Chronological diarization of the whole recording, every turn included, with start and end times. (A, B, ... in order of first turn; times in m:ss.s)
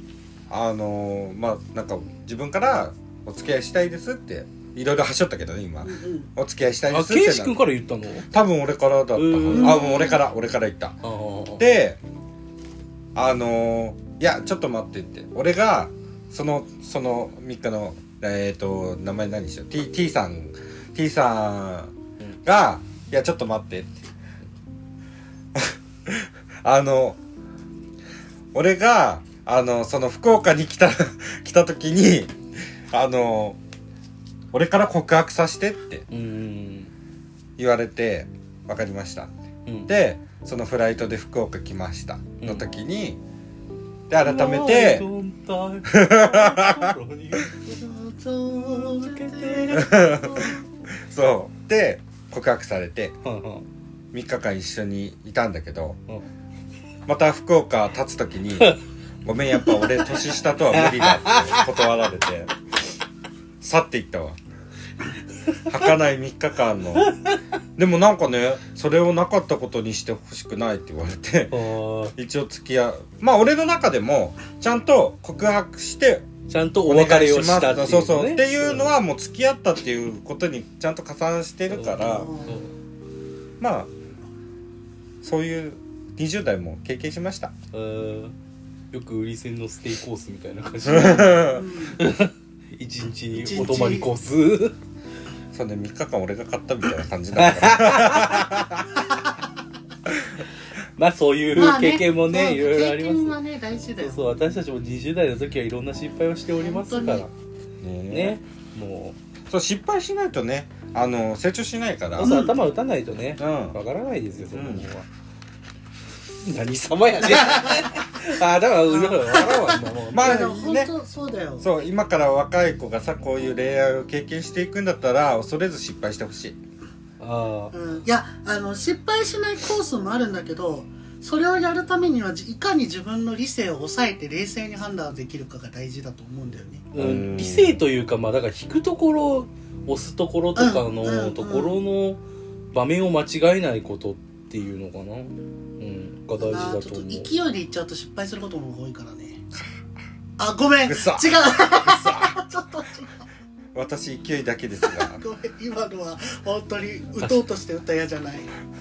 0:00.5-0:07.6 A
0:05.8-0:06.3 B
0:06.9-0:08.3 C
0:08.3-0:11.0 A
0:09.1-0:09.8 C
0:09.5-0:10.2 B
0:11.0-0:11.6 C
0:11.6-0:12.0 A
0:13.1-0:21.9 A
0:22.4-0:24.0 A
0:25.5-0:27.2 A
0:28.5-0:32.3 A
0:32.9-0:33.6 A
0:34.5-0:36.0 A
0:36.1-0:36.9 C
0:37.6-0:39.4 A
0:39.9-0:43.2 A
0:42.4-0:42.6 C
0:44.1-0:45.1 A
0:44.2-0:47.8 C
0:45.9-0:47.5 A
0:47.7-0:50.6 B
0:48.6-0:49.9 C
0:49.7-0:50.5 A
0:51.1-0:53.2 A
0:53.2-0:53.6 C
0:54.1-0:56.0 A
0:57.1-0:58.7 A
0:59.2-1:02.5 A
0:59.6-1:00.1 C
1:00.7-1:01.7 C
1:03.6-1:04.4 A
1:05.7-1:07.1 A
1:07.0-1:07.4 C
1:07.8-1:11.5 A
1:11.5-1:12.1 C
1:12.2-1:16.3 A
1:16.5-1:18.9 C
1:16.8-1:22.3 A
1:21.7-1:22.7 C
1:22.0-1:22.6 B
1:23.6-1:23.9 A
1:25.2-1:27.5 A
1:27.7-1:28.4 C
1:28.9-1:31.4 C
1:30.8-1:31.6 A
1:30.9-1:32.0 B
1:32.0-1:34.7 C
1:33.3-1:34.1 B
1:35.5-1:39.0 A
1:37.3-1:38.7 C
1:39.0-1:39.4 B
1:41.0-1:43.4 C
1:41.5-1:44.4 B
1:44.0-1:47.3 C
1:46.6-1:47.2 B
1:47.8-1:48.4 A
1:48.1-1:49.2 C
1:49.5-1:52.4 A
1:52.2-1:55.1 C
1:52.2-1:52.6 B
1:53.4-1:53.8 A
1:54.5-1:54.9 A
1:56.4-2:00.4 C
1:57.4-1:58.2 B
1:58.9-2:01.7 B
2:00.1-2:00.9 A
2:01.6-2:06.6 A
2:07.2-2:07.7 C
2:07.7-2:16.8 B
2:16.9-2:22.2 C
2:17.0-2:17.8 A
2:20.6-2:21.8 B
2:22.7-2:27.3 C
2:26.4-2:29.4 B
2:30.4-2:33.1 B
2:30.9-2:32.4 A
2:33.8-2:35.2 A
2:34.9-2:38.5 B